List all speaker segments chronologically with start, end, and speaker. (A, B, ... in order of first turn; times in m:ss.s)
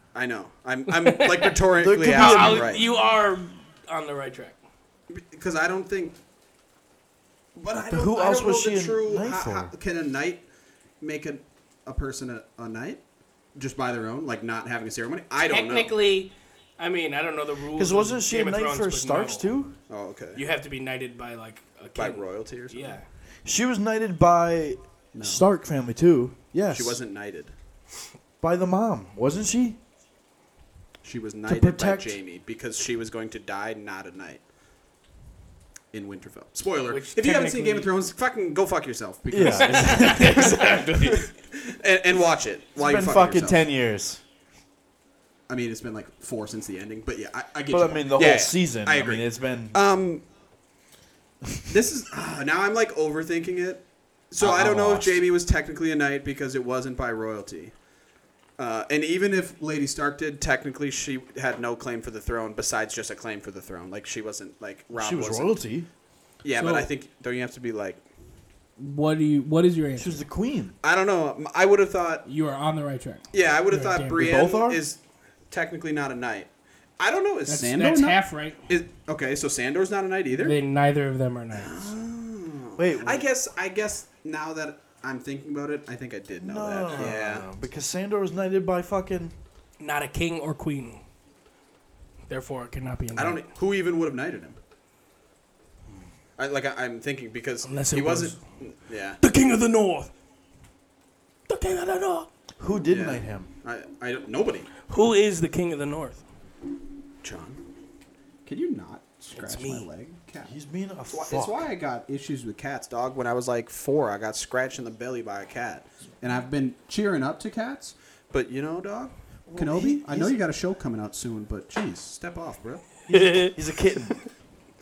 0:00.1-0:02.8 A
0:01.0-0:01.5 B
0:01.8-0:02.8 C
0:02.1-0:04.6 B
0:05.1-0:06.2 A
0:07.6-0:10.4 A
0:07.9-0:09.7 C
0:11.0-0:13.0 A
0:13.5-0:15.9 A
0:15.4-0:19.5 B
0:17.8-0:19.7 C
0:19.9-0:20.4 A
0:20.3-0:23.0 B
0:22.0-0:23.0 A
0:23.4-0:27.0 C
0:25.1-0:25.4 A
0:26.7-0:27.5 A
0:28.4-0:29.8 C
0:31.0-0:34.4 A
0:31.4-0:32.2 C
0:35.9-0:43.6 A
0:36.9-0:37.9 B
0:39.3-0:41.3 C
0:39.7-0:40.5 B
0:42.8-0:44.2 C
0:45.5-0:50.2 A
0:47.7-0:49.8 C
0:51.7-0:57.7 A
0:54.4-0:55.2 C
0:58.6-1:05.6 A
1:04.9-1:05.9 C
1:06.4-1:08.0 A
1:06.6-1:06.9 B
1:08.8-1:10.2 B
1:10.0-1:10.8 C
1:10.8-1:12.2 A
1:12.2-1:14.3 B
1:13.3-1:15.0 A
1:14.2-1:14.8 C
1:15.5-1:20.6 A
1:17.4-1:18.6 B
1:20.3-1:21.9 B
1:21.6-1:27.5 A
1:22.8-1:23.2 C
1:26.4-1:29.3 C
1:29.8-1:31.0 B
1:32.3-1:33.4 B
1:33.1-1:34.6 A
1:36.4-1:39.2 A
1:37.6-1:38.4 B
1:39.2-1:40.1 B
1:41.5-1:42.3 B
1:42.6-1:43.5 C
1:42.9-1:44.7 A
1:44.9-1:46.2 B
1:47.2-1:47.6 A
1:48.4-1:50.5 A
1:49.3-1:49.9 B
1:50.4-1:51.6 C
1:51.1-2:02.8 A
1:59.5-2:00.4 C
2:03.1-2:04.2 C
2:03.1-2:03.5 B